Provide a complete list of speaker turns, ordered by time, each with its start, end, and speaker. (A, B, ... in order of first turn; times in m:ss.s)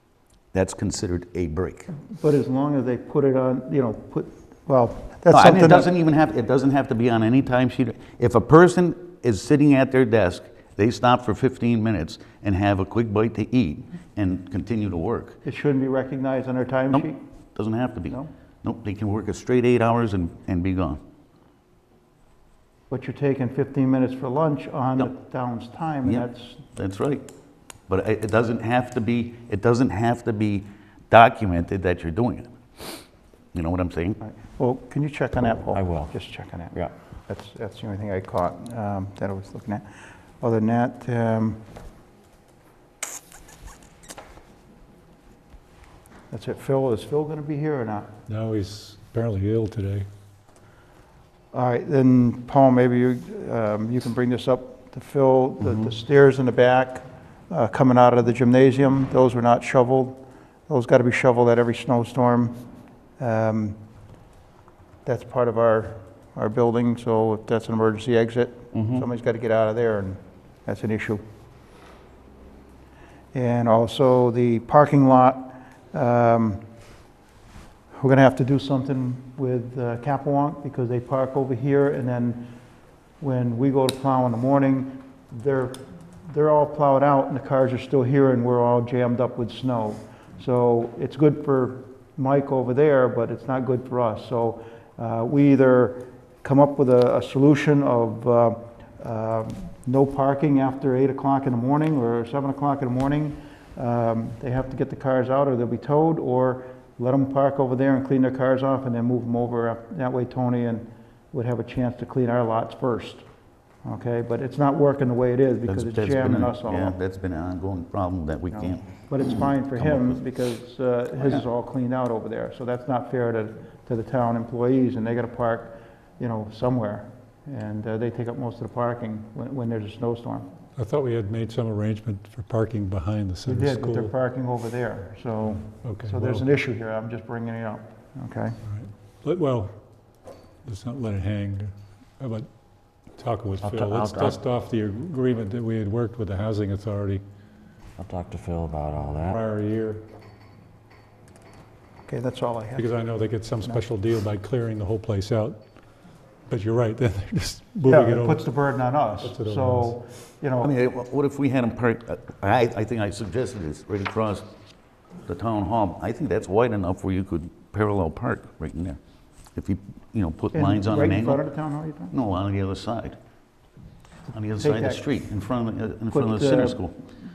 0:00.5-0:01.9 A
0:02.1-0:05.8 B
0:05.3-0:15.4 A
0:15.4-0:17.2 B
0:16.9-0:21.0 A
0:22.9-0:26.6 B
0:26.0-0:27.2 A
0:27.9-0:32.5 A
0:33.5-0:34.2 A
0:34.2-0:36.7 B
0:35.7-0:36.1 C
0:37.3-0:39.9 B
0:40.4-0:41.6 B
0:46.3-0:48.1 B
0:48.3-0:50.1 D
0:51.5-1:02.6 B
1:03.2-1:03.8 B
1:05.0-1:11.2 B
1:13.3-1:16.6 B
1:17.9-1:22.5 B
1:23.2-1:53.2 B
1:53.8-1:57.0 B
1:55.7-2:00.2 A
1:58.5-2:10.5 B
2:01.2-2:01.4 A
2:10.8-2:14.1 D
2:13.5-2:18.6 B
2:15.8-2:16.4 D
2:18.6-2:19.7 D
2:20.6-2:22.5 D
2:23.1-2:27.2 D
2:23.6-2:24.4 C
2:28.0-2:29.4 C
2:29.3-2:30.0 D
2:32.1-2:32.9 B
2:32.8-2:35.6 D
2:36.5-2:38.4 D
2:37.8-2:40.7 B
2:39.2-2:40.0 D
2:40.6-2:44.4 A
2:45.2-2:49.0 A
2:49.5-2:51.5 A
2:50.5-2:52.1 B
2:52.1-2:53.2 A
2:54.3-2:57.0 A
2:54.6-2:55.0 B
2:56.1-2:56.9 B